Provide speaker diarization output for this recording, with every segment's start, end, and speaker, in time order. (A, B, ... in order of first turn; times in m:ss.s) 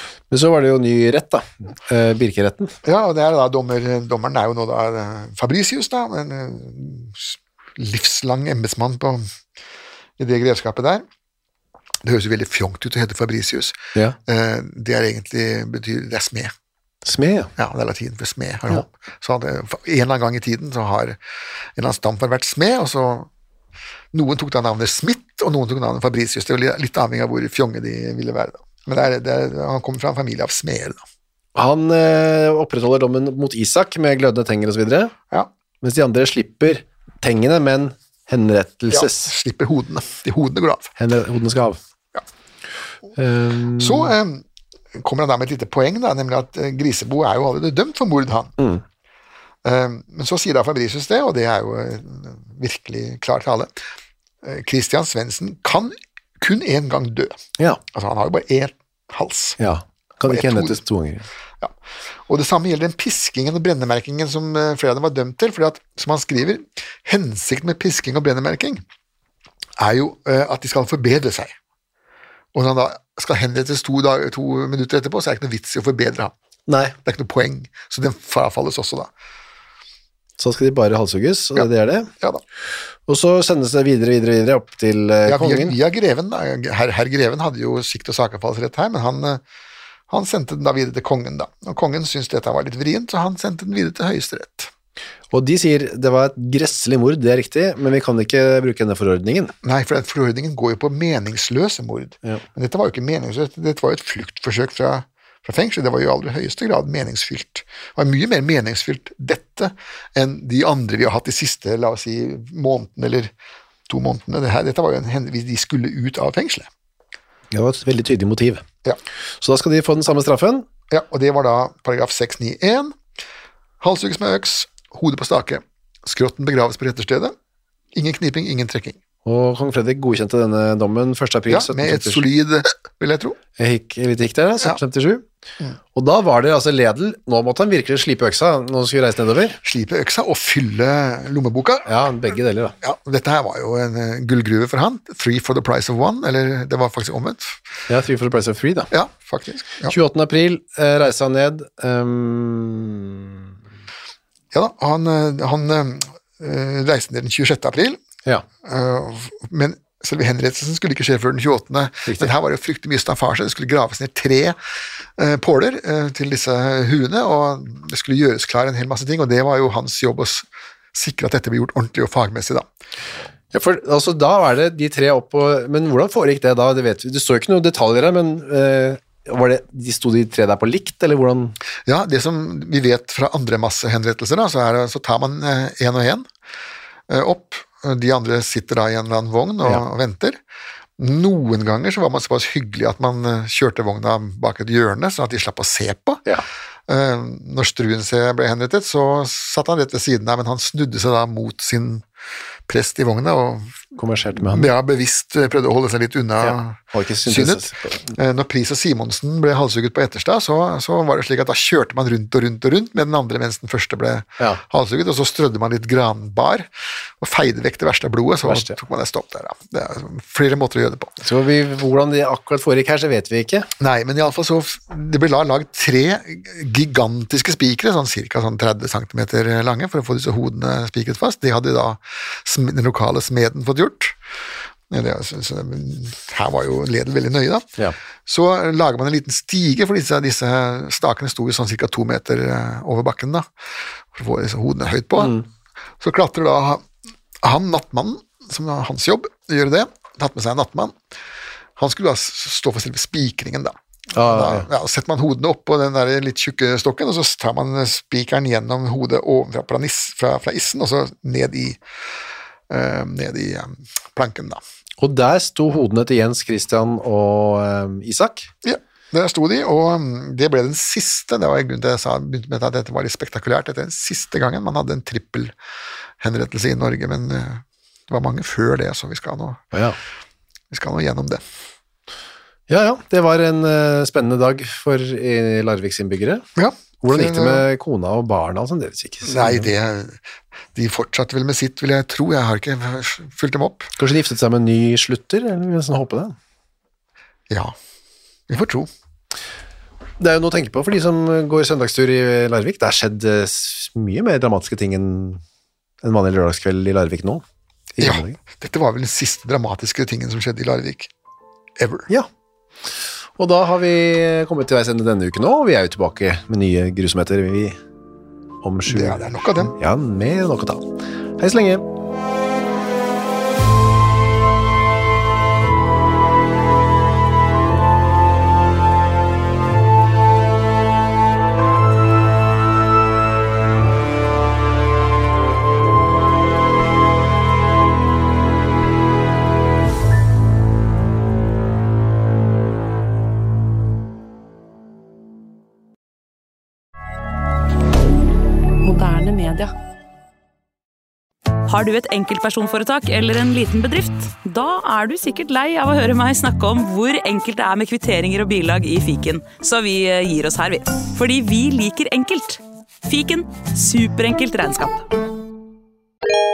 0:00.3-0:02.7 A
0:02.8-0:09.2 B
0:10.2-0:11.0 B
0:12.0-0:13.8 B
0:14.3-0:16.5 B
0:17.0-0:17.5 A
0:17.6-0:21.2 B
0:21.8-0:23.3 B
0:24.1-0:31.0 B
0:31.5-0:35.1 A
0:35.8-0:39.3 A
0:38.9-0:40.9 B
0:41.0-0:41.8 A
0:43.2-0:44.1 A
0:43.8-0:44.4 B
0:45.0-0:48.5 B
0:49.6-0:53.7 B
0:54.4-0:57.4 B
0:57.9-0:59.6 B
0:59.6-1:01.2 A
1:00.2-1:00.8 B
1:02.3-1:08.8 B
1:09.8-1:11.5 B
1:12.5-1:16.3 B
1:16.7-1:16.9 A
1:17.0-1:19.1 B
1:20.4-1:22.1 A
1:23.1-1:25.7 A
1:25.2-1:29.4 B
1:30.1-1:34.7 B
1:35.3-1:39.5 A
1:39.6-1:53.3 B
1:53.9-1:56.7 B
1:57.5-1:58.6 A
1:59.4-2:00.6 A
2:00.9-2:03.0 B
2:03.8-2:07.3 B
2:07.9-2:09.0 B
2:09.2-2:12.2 A
2:11.5-2:13.4 B
2:13.6-2:15.2 A
2:15.9-2:19.6 A
2:19.6-2:21.9 B
2:21.8-2:22.7 A
2:22.8-2:27.6 B
2:27.9-2:28.9 A
2:28.9-2:29.9 B
2:29.8-2:33.4 A
2:34.5-2:38.0 B
2:38.6-2:44.6 B
2:42.1-2:42.3 A
2:45.2-2:52.7 B
2:53.5-3:01.6 A
3:01.8-3:06.3 B
3:07.1-3:10.4 B
3:11.0-3:16.2 B
3:16.9-3:22.0 B
3:22.7-3:23.7 B
3:24.0-3:24.7 A
3:24.4-3:36.7 B
3:26.4-3:28.1 A
3:37.2-3:41.1 B
3:38.4-3:38.8 A
3:41.2-3:43.7 A
3:43.8-3:54.2 B
3:54.9-3:57.7 B
3:58.2-4:03.5 B
4:04.1-4:05.4 B
4:05.2-4:05.4 A
4:06.0-4:06.8 B
4:07.4-4:11.0 B
4:11.8-4:21.8 B
4:14.1-4:14.7 A
4:22.7-4:24.6 B
4:25.0-4:28.5 A
4:28.6-4:35.5 B
4:36.2-4:39.6 B
4:39.7-4:40.0 A
4:40.7-4:41.4 B
4:42.7-4:46.4 A
4:46.6-4:47.6 B
4:47.0-4:49.7 A
4:49.2-4:50.2 B
4:50.7-4:53.9 B
4:54.0-4:56.4 A
4:57.5-4:57.7 B
4:58.5-4:58.9 B
5:00.2-5:05.4 A
5:06.0-5:07.4 A
5:08.0-5:08.4 A
5:08.0-5:11.1 B
5:11.8-5:12.1 B
5:13.4-5:17.8 A
5:18.6-5:21.8 A
5:18.9-5:19.7 B
5:48.8-5:49.7 C
5:51.7-6:05.1 C